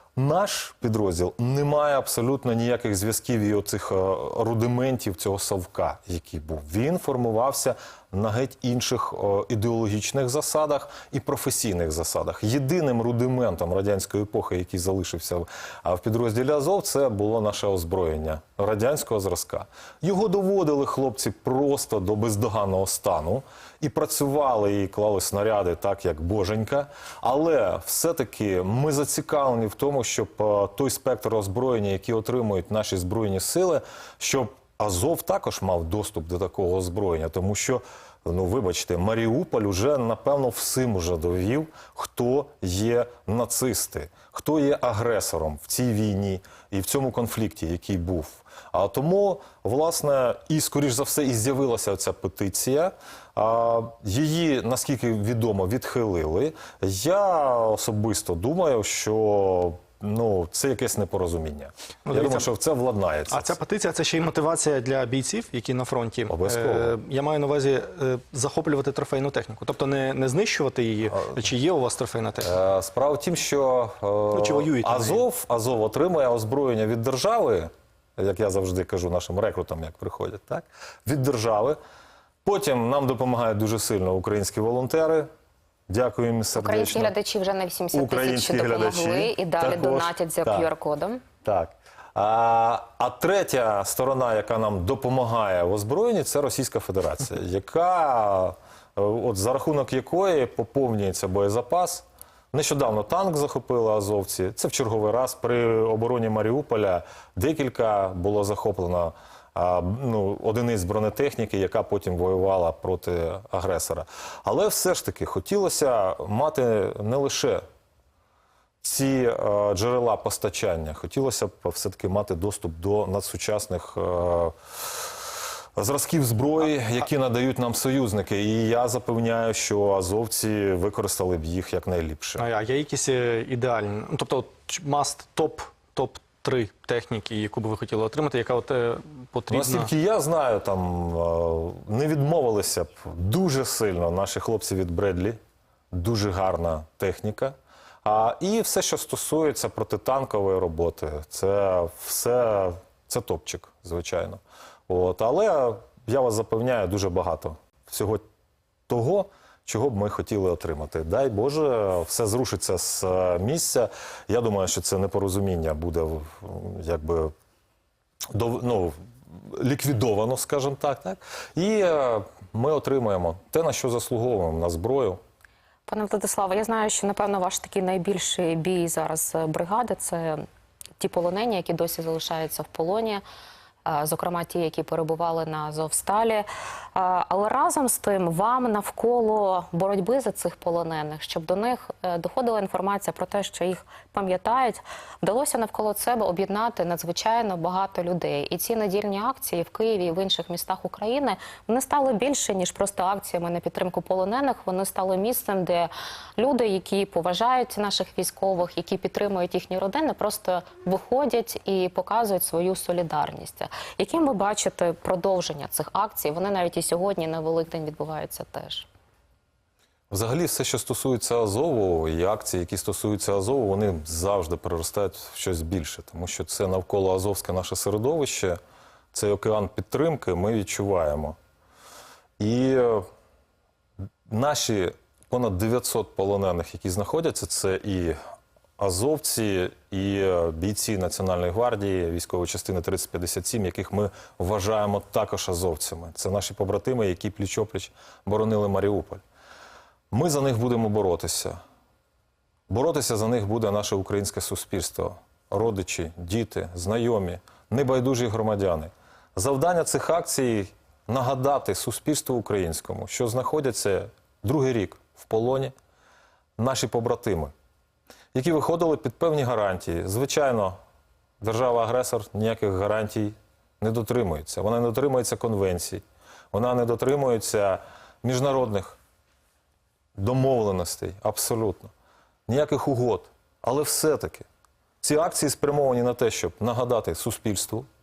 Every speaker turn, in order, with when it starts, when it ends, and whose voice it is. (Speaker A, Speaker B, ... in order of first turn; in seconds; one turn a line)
Speaker A: 0.2-63.5
Speaker B: 62.1-62.5
Speaker B: 63.3-72.5
Speaker A: 66.3-67.0
Speaker A: 72.4-81.8
Speaker B: 74.3-75.2
Speaker A: 82.5-85.3
Speaker A: 85.9-87.1
Speaker C: 86.5-91.2
Speaker A: 87.9-90.7
Speaker A: 91.4-117.6
Speaker A: 118.8-124.5
Speaker A: 125.8-132.4
Speaker B: 132.4-139.9
Speaker A: 139.5-145.4
Speaker A: 145.9-158.2
Speaker A: 158.9-167.3
Speaker A: 168.3-175.2
Speaker C: 175.9-180.4
Speaker C: 181.0-183.2
Speaker C: 183.8-218.9
Speaker A: 220.1-228.6
Speaker A: 229.1-231.4
Speaker A: 232.4-233.1
Speaker A: 234.3-238.2
Speaker A: 238.8-249.2
Speaker A: 250.1-251.6
Speaker A: 252.7-265.7
Speaker A: 266.6-267.5
Speaker A: 268.3-270.8
Speaker A: 271.4-279.0
Speaker A: 280.2-281.9
Speaker A: 282.5-284.5
Speaker A: 285.0-287.9